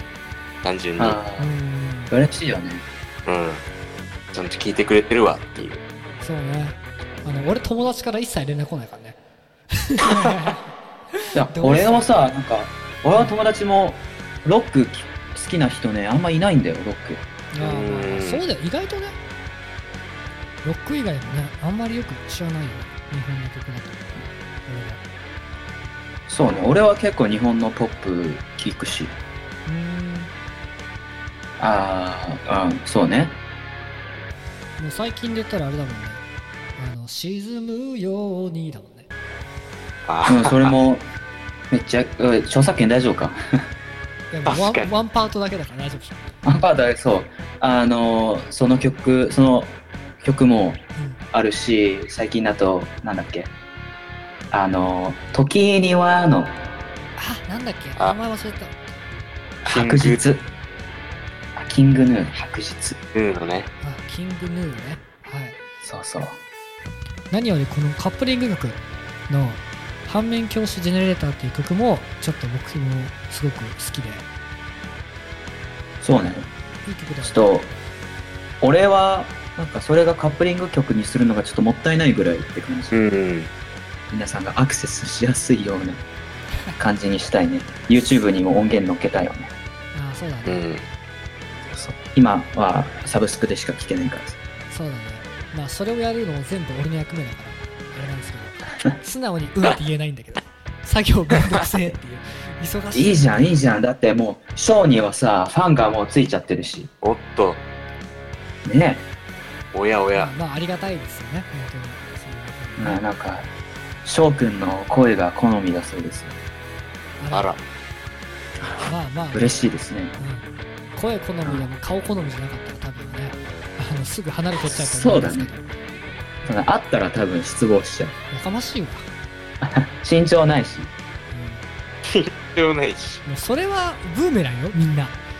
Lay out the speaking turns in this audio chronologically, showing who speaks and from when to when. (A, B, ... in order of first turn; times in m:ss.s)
0:00.6-0:01.2 A
0:01.0-0:01.5 B
0:01.4-0:02.1 C
0:02.1-0:02.8 B
0:03.2-0:03.6 A
0:04.3-0:05.8 A
0:06.2-0:09.2 C
0:09.7-0:10.6 C
0:11.2-0:12.1 C
0:11.3-0:17.2 B
0:17.5-0:19.2 C
0:17.6-0:18.4 A
0:20.6-0:24.1 C
0:24.6-0:25.0 C
0:26.3-0:29.1 B
0:29.6-0:30.3 C
0:31.6-0:33.4 B
0:34.8-0:36.2 C
0:36.8-0:39.1 C
0:40.1-0:40.7 A
0:40.2-0:41.0 B
0:41.7-0:43.4 B
0:44.3-0:46.3 C
0:44.5-0:44.9 A
0:46.4-0:50.8 B
0:51.3-0:53.5 B
0:54.5-0:56.5 B
0:57.2-0:58.7 C
0:59.6-1:00.4 B
0:59.6-1:00.2 A
1:01.6-1:03.0 B
1:03.1-1:03.7 A
1:03.8-1:05.6 C
1:05.8-1:06.4 B
1:07.3-1:14.3 C
1:16.0-1:16.5 B
1:16.8-1:17.6 C
1:17.2-1:17.7 B
1:18.6-1:22.9 B
1:22.9-1:23.5 A
1:24.1-1:26.0 B
1:26.8-1:29.5 B
1:29.9-1:30.6 C
1:30.4-1:30.8 A
1:31.7-1:34.4 B
1:34.7-1:43.4 C
1:42.9-1:46.9 B
1:47.0-1:47.6 A
1:48.6-1:49.0 B
1:49.7-1:50.3 A
1:50.1-1:53.0 C
1:52.8-1:53.5 B
1:54.0-1:56.4 B
1:57.2-1:57.5 C
1:57.3-1:57.6 A
1:58.8-1:59.6 C
1:59.3-2:00.1 B
2:00.2-2:05.6 C
2:04.6-2:05.5 B
2:06.4-2:08.1 B
2:08.3-2:09.1 C
2:09.6-2:10.9 B
2:11.3-2:11.6 C
2:12.0-2:13.2 A
2:13.2-2:15.2 C